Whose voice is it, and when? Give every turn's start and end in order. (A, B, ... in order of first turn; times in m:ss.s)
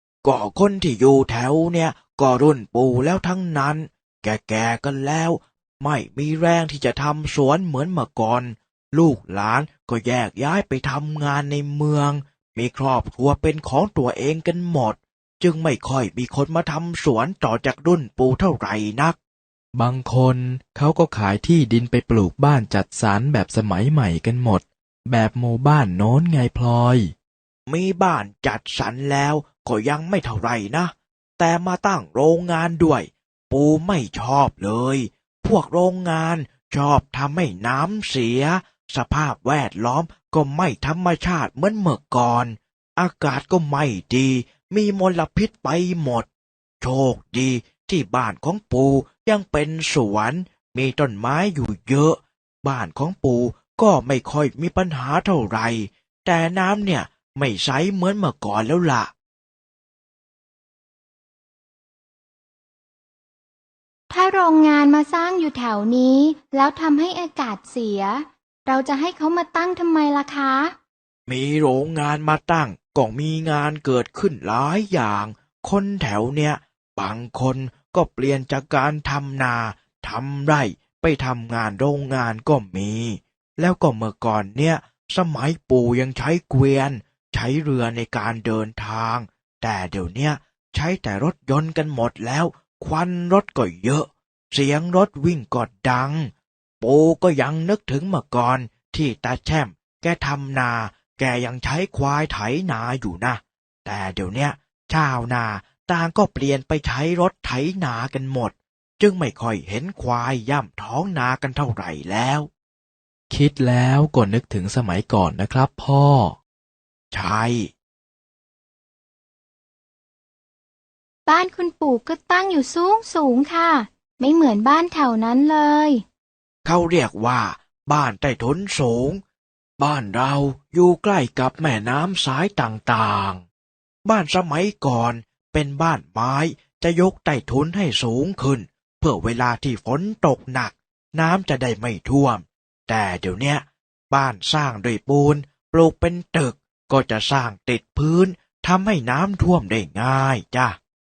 0:00.2-0:19.2 A
0:19.7-0:27.1 B
0:27.7-0:46.3 A
0:46.8-0:59.1 A
1:04.1-1:10.8 C
1:11.3-1:52.5 A
1:53.3-1:56.4 B
1:57.1-1:57.7 A
2:01.3-2:06.0 C
2:06.6-2:09.2 A
2:09.8-2:13.4 A
2:14.0-2:30.8 A